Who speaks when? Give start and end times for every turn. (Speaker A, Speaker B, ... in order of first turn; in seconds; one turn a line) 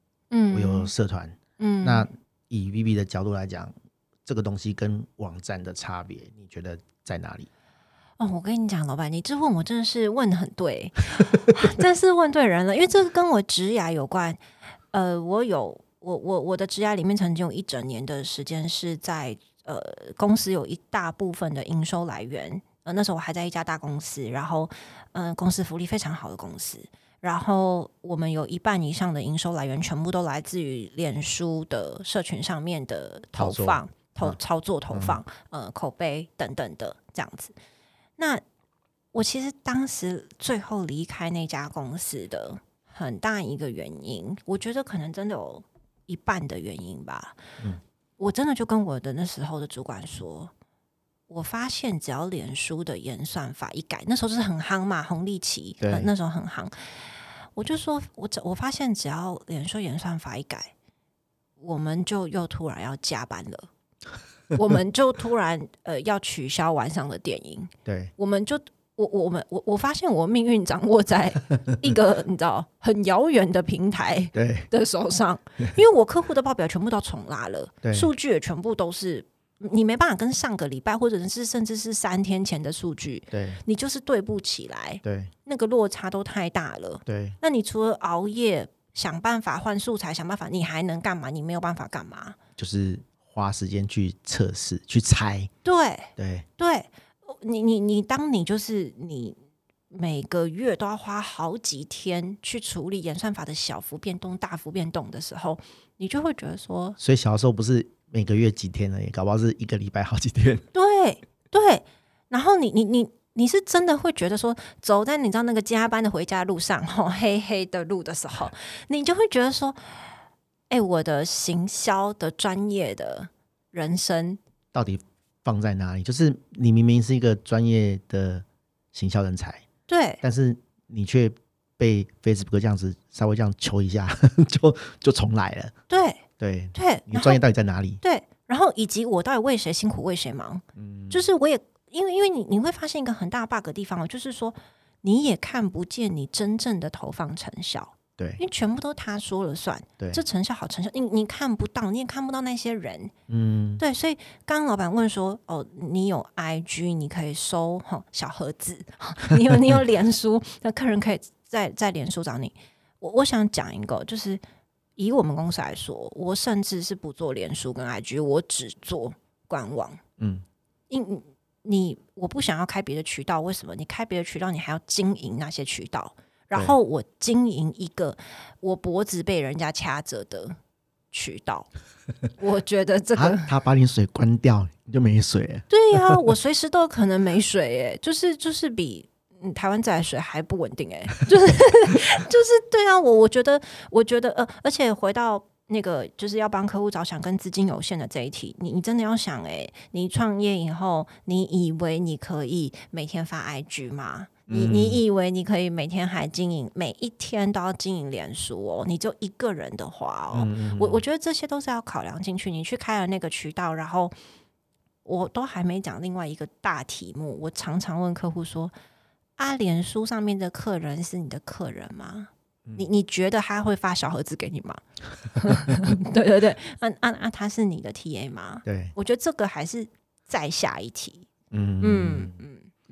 Speaker A: 0.3-0.9
Speaker B: 0.5-3.7
Speaker A: 1.6-2.1
Speaker B: 4.2-7.5
Speaker A: 8.2-14.4
Speaker A: 14.9-37.5
Speaker B: 33.4-34.4
Speaker B: 34.9-35.2
Speaker A: 38.2-38.4
Speaker A: 39.1-47.4
Speaker A: 48.2-50.5
Speaker A: 51.3-60.7
Speaker B: 55.8-56.1
Speaker A: 61.6-63.7
Speaker A: 64.5-92.4
Speaker B: 67.8-68.1
Speaker B: 74.3-74.7
Speaker B: 77.8-78.1
Speaker B: 83.3-83.6
Speaker B: 85.0-85.3
Speaker B: 87.0-87.3
Speaker B: 92.6-95.5
Speaker A: 95.6-99.4
Speaker B: 96.2-96.5
Speaker A: 99.9-107.0
Speaker B: 107.0-110.6
Speaker A: 110.7-120.0
Speaker A: 120.7-124.4
Speaker B: 124.7-129.6
Speaker A: 129.9-130.2
Speaker B: 130.2-135.7
Speaker A: 135.9-136.2
Speaker B: 136.4-138.0
Speaker A: 136.7-137.4
Speaker A: 138.0-153.1
Speaker B: 140.8-141.2
Speaker B: 153.3-153.8
Speaker A: 153.8-164.4
Speaker A: 165.0-170.0
Speaker B: 170.2-170.4
Speaker A: 170.9-180.6
Speaker A: 181.1-181.7
Speaker A: 182.4-183.5
Speaker B: 183.1-186.3
Speaker A: 185.7-214.1
Speaker B: 204.5-205.0
Speaker B: 210.3-211.0
Speaker A: 215.0-218.7
Speaker A: 219.4-231.3
Speaker B: 228.6-228.9
Speaker B: 231.5-232.4
Speaker A: 231.8-232.7